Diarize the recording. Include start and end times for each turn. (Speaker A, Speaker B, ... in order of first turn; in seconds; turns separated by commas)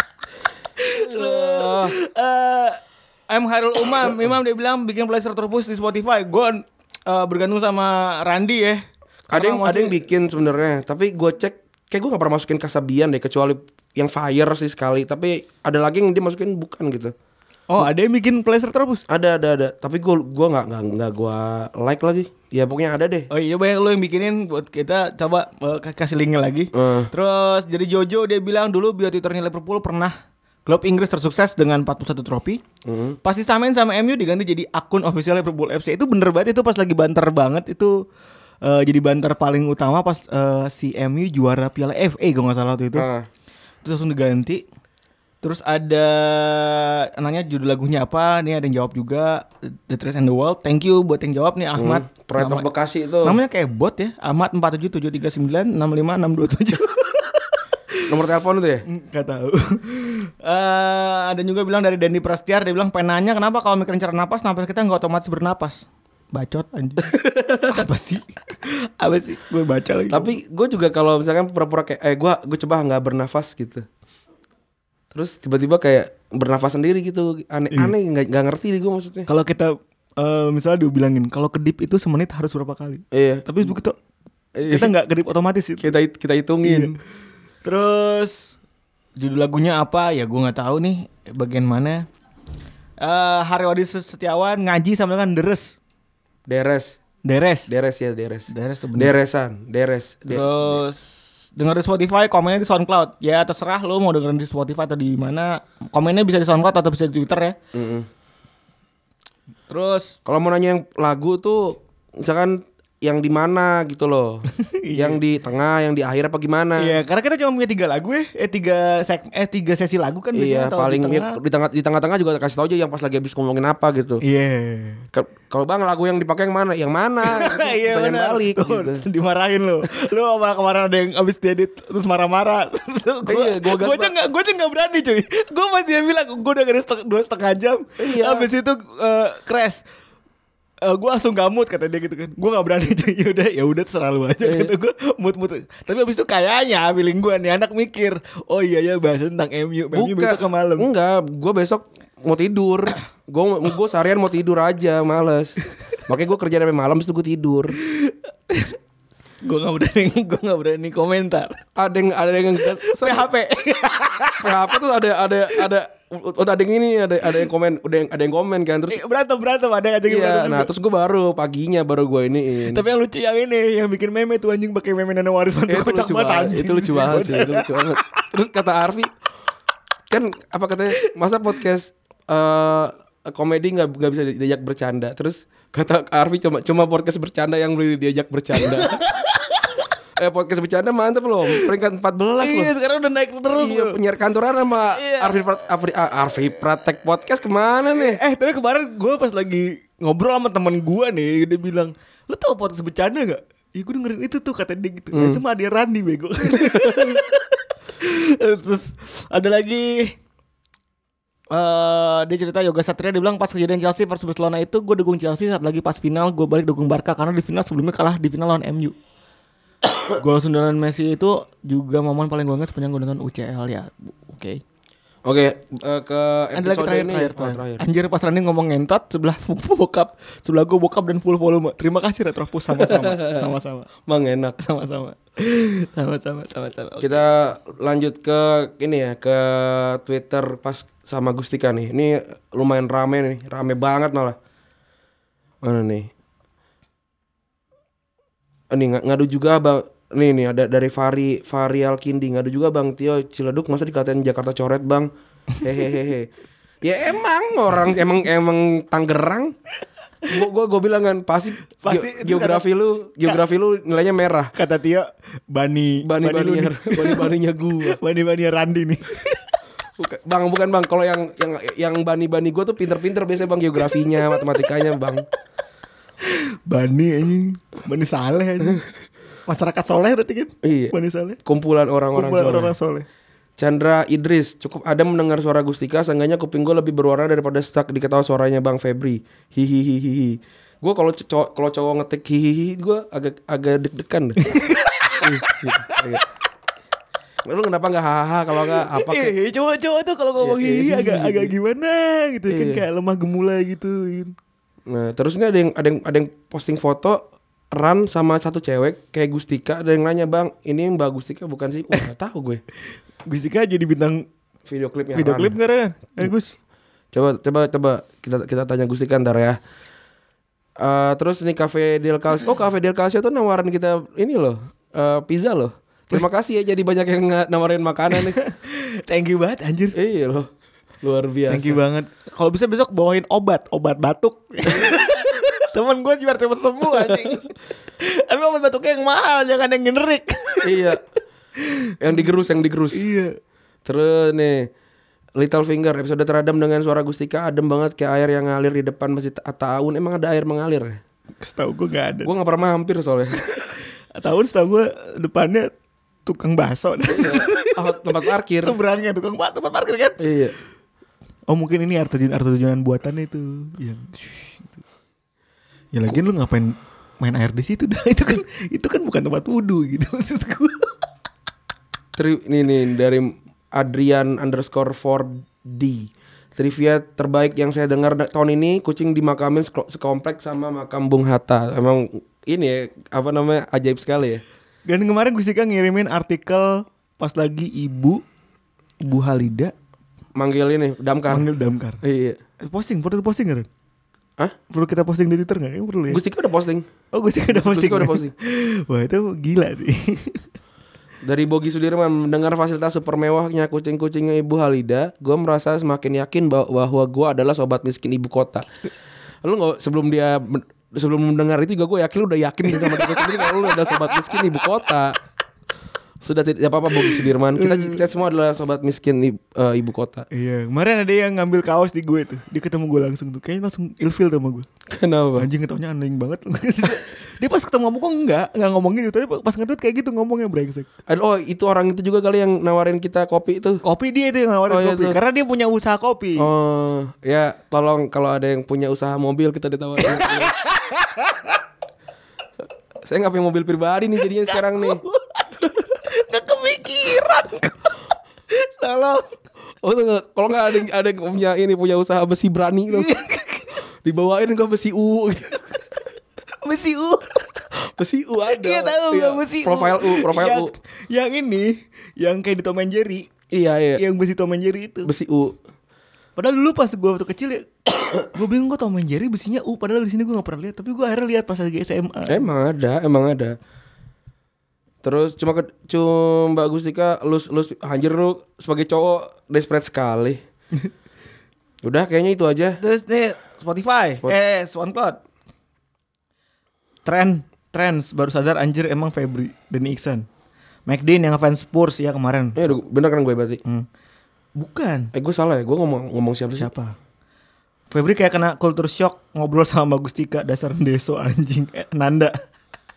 Speaker A: 0.8-10.0, Speaker B: 0.9-1.9, Speaker B: 9.3-17.1, Speaker A: 17.7-19.0, Speaker B: 19.1-23.3, Speaker A: 23.3-30.1, Speaker B: 26.7-27.1, Speaker A: 30.6-32.6, Speaker B: 32.8-33.2, Speaker A: 33.2-38.0, Speaker A: 38.6-43.1, Speaker B: 42.9-43.2, Speaker A: 43.8-44.6, Speaker A: 45.4-52.7, Speaker B: 51.8-53.4, Speaker A: 53.2-58.0, Speaker B: 58.1-58.8, Speaker A: 58.9-70.3, Speaker B: 67.1-67.8, Speaker B: 70.1-73.8, Speaker B: 75.1-79.3, Speaker A: 79.3-84.0, Speaker B: 83.1-83.7, Speaker B: 84.5-84.9, Speaker A: 84.7-85.9, Speaker B: 85.8-86.9, Speaker A: 86.6-86.9, Speaker A: 87.6-88.5, Speaker A: 89.2-92.0, Speaker A: 93.0-95.8, Speaker B: 96.5-97.0, Speaker A: 97.2-97.7, Speaker B: 97.7-100.8, Speaker A: 98.5-99.1, Speaker A: 100.3-107.5, Speaker B: 107.7-108.1, Speaker A: 109.7-110.2, Speaker B: 110.2-117.0, Speaker A: 114.5-115.2, Speaker A: 116.8-121.4, Speaker B: 120.3-124.2, Speaker A: 124.2-125.0, Speaker B: 125.1-129.0, Speaker A: 127.2-139.8, Speaker B: 133.2-134.1, Speaker B: 138.0-138.5, Speaker A: 140.8-150.9, Speaker B: 144.4-144.7, Speaker B: 149.9-157.8, Speaker A: 158.0-158.8, Speaker A: 159.4-161.6, Speaker B: 161.8-163.3, Speaker A: 162.6-164.7, Speaker B: 164.4-169.0, Speaker A: 168.9-170.7, Speaker B: 170.1-172.8, Speaker A: 172.7-178.2, Speaker B: 175.7-179.1, Speaker B: 180.1-189.0, Speaker A: 188.6-189.7, Speaker B: 190.2-192.7, Speaker A: 192.4-194.0, Speaker B: 193.5-198.2, Speaker A: 194.9-195.4, Speaker A: 197.9-210.1, Speaker B: 205.1-205.4, Speaker B: 206.5-207.1, Speaker A: 211.5-218.9, Speaker A: 220.1-224.6, Speaker B: 225.2-227.8, Speaker A: 226.6-233.9, Speaker B: 232.7-233.5, Speaker B: 234.1-234.6, Speaker A: 234.6-237.2, Speaker B: 237.0-244.3, Speaker B: 245.6-246.1, Speaker B: 248.7-255.1, Speaker B: 255.6-256.3, Speaker B: 256.8-259.5, Speaker B: 260.3-264.5, Speaker A: 261.8-262.6, Speaker A: 264.5-269.4, Speaker B: 266.0-268.0, Speaker B: 270.0-275.2, Speaker A: 273.9-274.4, Speaker A: 276.2-278.8, Speaker A: 279.5-281.4, Speaker B: 280.6-282.7, Speaker A: 282.1-283.1, Speaker B: 283.6-294.4, Speaker A: 294.4-296.0, Speaker B: 295.2-296.2, Speaker B: 297.4-299.3, Speaker A: 298.6-304.3, Speaker B: 300.4-301.5, Speaker B: 302.5-302.8, Speaker B: 304.9-312.6, Speaker A: 313.2-314.2, Speaker B: 314.6-315.6, Speaker A: 315.1-316.6, Speaker B: 317.1-319.6, Speaker B: 320.8-328.4, Speaker A: 328.1-330.0, Speaker B: 329.9-330.5, Speaker B: 331.0-331.8, Speaker A: 331.5-340.9, Speaker B: 337.0-337.4, Speaker B: 340.6-341.0, Speaker A: 341.6-341.9, Speaker B: 342.0-343.1, Speaker A: 342.9-343.3, Speaker B: 343.8-344.7, Speaker B: 345.4-351.0, Speaker A: 351.4-352.3, Speaker B: 352.2-353.4, Speaker A: 354.1-355.7, Speaker A: 356.2-358.0, Speaker B: 357.1-358.8, Speaker A: 358.6-360.2, Speaker B: 360.2-360.5, Speaker A: 361.5-364.8, Speaker A: 365.9-370.9, Speaker B: 372.1-384.4, Speaker A: 384.9-388.2, Speaker A: 389.0-389.7, Speaker B: 390.3-391.5, Speaker A: 391.3-392.0, Speaker B: 392.0-392.4, Speaker A: 392.6-393.7, Speaker A: 394.7-396.2, Speaker B: 396.1-396.9, Speaker A: 397.1-400.4, Speaker B: 397.5-398.3, Speaker B: 401.2-408.6, Speaker B: 409.4-415.2, Speaker A: 412.8-413.9, Speaker B: 416.2-420.2, Speaker A: 416.9-418.0, Speaker A: 420.3-424.7, Speaker B: 424.9-425.5, Speaker A: 425.4-430.9, Speaker B: 431.1-433.8, Speaker A: 433.8-436.5, Speaker B: 434.7-435.2, Speaker B: 436.4-440.5, Speaker A: 440.0-441.5, Speaker B: 443.0-445.0, Speaker A: 444.5-447.9, Speaker A: 448.5-449.3, Speaker B: 449.8-453.1, Speaker A: 452.9-453.8, Speaker B: 454.0-455.7, Speaker A: 456.6-457.6, Speaker B: 457.8-460.7, Speaker A: 458.4-463.3, Speaker B: 463.5-464.0, Speaker A: 464.0-465.1, Speaker B: 465.0-465.6, Speaker A: 466.4-472.4, Speaker B: 472.3-473.6, Speaker B: 475.0-480.4, Speaker B: 481.8-482.8, Speaker A: 482.8-485.2, Speaker A: 487.0-490.2, Speaker A: 490.9-492.7, Speaker B: 492.6-493.6, Speaker A: 494.6-495.1, Speaker B: 495.1-496.7, Speaker A: 496.5-496.9, Speaker A: 497.9-502.4